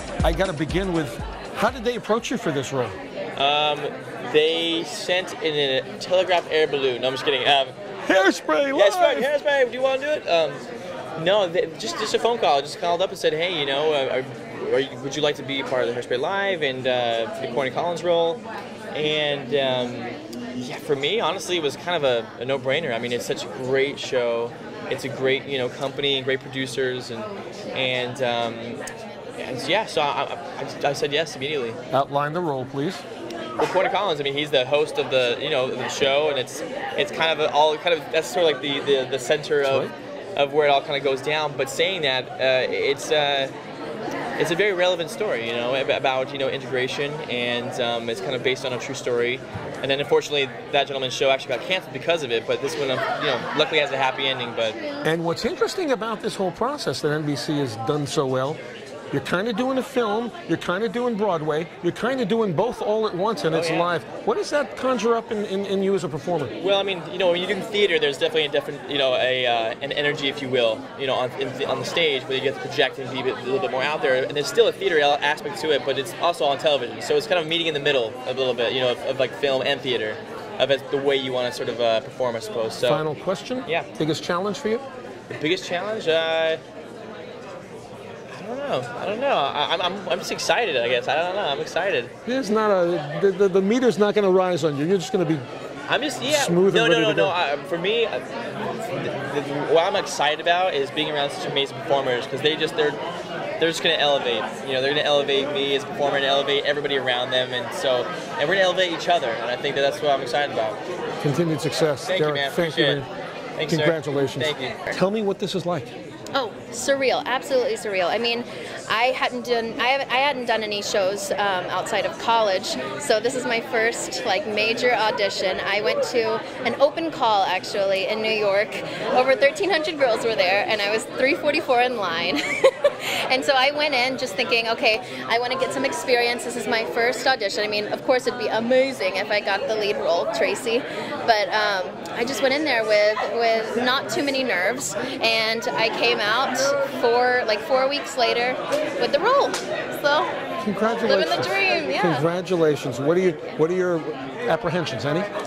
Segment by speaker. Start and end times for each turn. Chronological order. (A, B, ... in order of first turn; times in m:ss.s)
0:00.2-0:03.0 A
0:03.4-0:07.8 B
0:08.0-0:09.3 A
0:08.7-0:10.6 B
0:11.2-0:18.4 B
0:18.9-0:28.8 B
0:29.4-0:31.8 B
0:31.9-0:33.0 A
0:33.6-0:43.5 B
0:39.6-0:39.9 A
0:44.4-0:54.8 B
0:55.0-0:58.6 A
0:59.1-1:06.5 A
1:03.5-1:03.9 B
1:06.6-1:23.1 B
1:22.8-1:24.8 A
1:25.3-1:26.6 B
1:28.3-1:32.1 B
1:32.3-1:35.5 A
1:35.9-1:38.2 B
1:36.2-1:37.4 A
1:38.9-1:43.0 B
1:43.6-1:50.8 B
1:51.2-1:53.1 A
1:52.0-1:55.0 B
1:53.7-1:55.9 A
1:56.3-2:30.4 C
2:30.6-2:35.3 A
2:31.0-2:32.3 C